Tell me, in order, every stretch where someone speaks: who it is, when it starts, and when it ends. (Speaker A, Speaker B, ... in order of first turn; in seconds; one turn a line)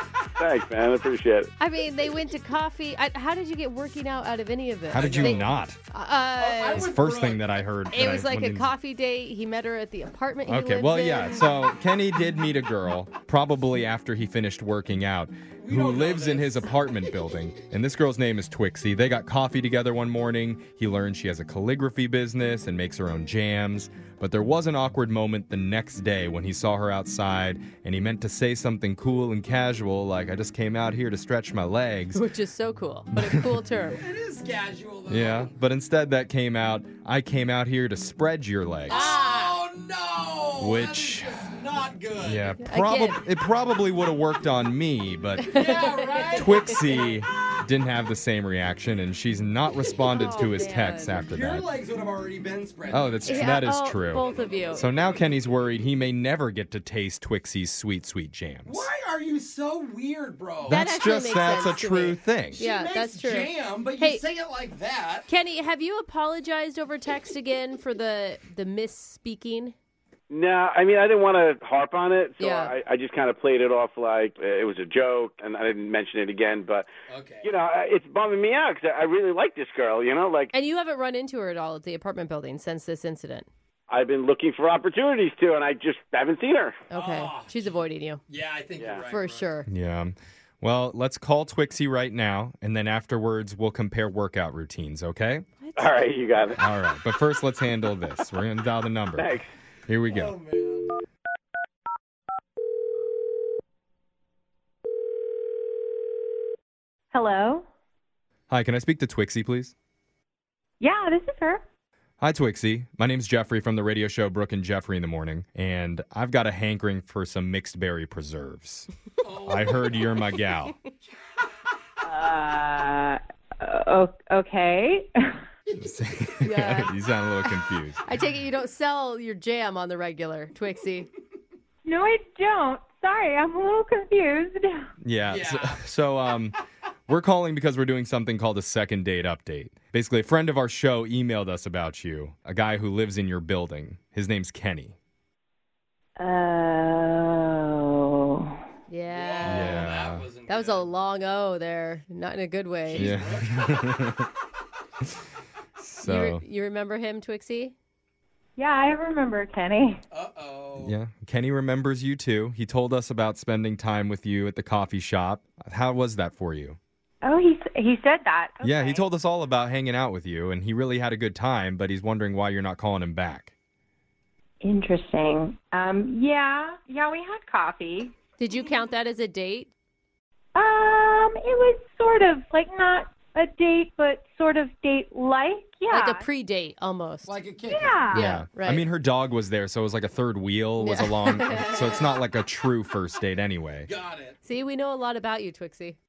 Speaker A: 0.4-1.5
Speaker B: 1.6-6.9
Speaker C: 4.9-5.8
Speaker D: 5.0-5.4
Speaker D: 6.3-7.5
Speaker C: 6.7-8.7
Speaker B: 7.9-11.5
Speaker C: 10.4-32.2
Speaker D: 15.6-16.7
Speaker B: 32.1-34.0
Speaker C: 33.1-33.5
Speaker D: 34.0-35.5
Speaker C: 35.1-39.1
Speaker B: 38.9-39.5
Speaker D: 38.9-42.5
Speaker C: 40.6-41.5
Speaker C: 42.2-45.8
Speaker B: 42.6-43.2
Speaker B: 45.4-47.0
Speaker D: 45.4-47.2
Speaker C: 46.3-51.7
Speaker B: 50.0-51.2
Speaker D: 51.1-55.6
Speaker C: 52.9-58.8
Speaker B: 53.2-54.9
Speaker D: 58.6-60.8
Speaker B: 60.7-64.2
Speaker C: 60.7-62.6
Speaker D: 62.5-65.3
Speaker B: 65.3-69.7
Speaker A: 70.3-76.9
Speaker B: 72.4-72.7
Speaker D: 77.1-77.5
Speaker A: 77.4-80.5
Speaker B: 80.5-83.5
Speaker A: 83.9-86.8
Speaker B: 86.9-88.2
Speaker D: 86.9-87.7
Speaker D: 88.3-89.5
Speaker B: 89.1-89.7
Speaker C: 89.7-95.5
Speaker B: 95.6-95.9
Speaker A: 95.8-96.6
Speaker C: 96.6-100.3
Speaker A: 99.2-99.5
Speaker D: 100.0-101.0
Speaker E: 107.1-107.7
Speaker C: 108.5-109.7
Speaker E: 110.8-111.6
Speaker C: 112.2-118.9
Speaker D: 119.2-120.0
Speaker C: 119.4-120.7
Speaker E: 122.0-125.1
Speaker C: 125.8-128.0
Speaker B: 126.4-126.9
Speaker B: 128.1-131.1
Speaker E: 131.8-134.7
Speaker C: 135.0-136.6
Speaker D: 135.2-135.8
Speaker C: 137.1-144.9
Speaker E: 146.2-148.5
Speaker B: 148.9-149.9
Speaker D: 149.1-150.9
Speaker C: 149.4-150.2
Speaker B: 150.5-153.2
Speaker D: 152.8-154.0
Speaker C: 152.9-154.3
Speaker C: 155.8-156.4
Speaker B: 156.0-157.7
Speaker E: 158.6-160.0
Speaker D: 160.1-160.9
Speaker C: 160.8-166.8
Speaker E: 167.2-169.0
Speaker C: 168.6-173.5
Speaker E: 174.6-178.1
Speaker B: 178.4-179.7
Speaker E: 180.5-186.2
Speaker B: 185.9-187.3
Speaker D: 187.2-188.1
Speaker E: 187.7-188.2
Speaker B: 188.1-188.8
Speaker C: 188.1-193.9
Speaker B: 190.8-192.0
Speaker D: 193.8-194.3
Speaker B: 194.4-196.0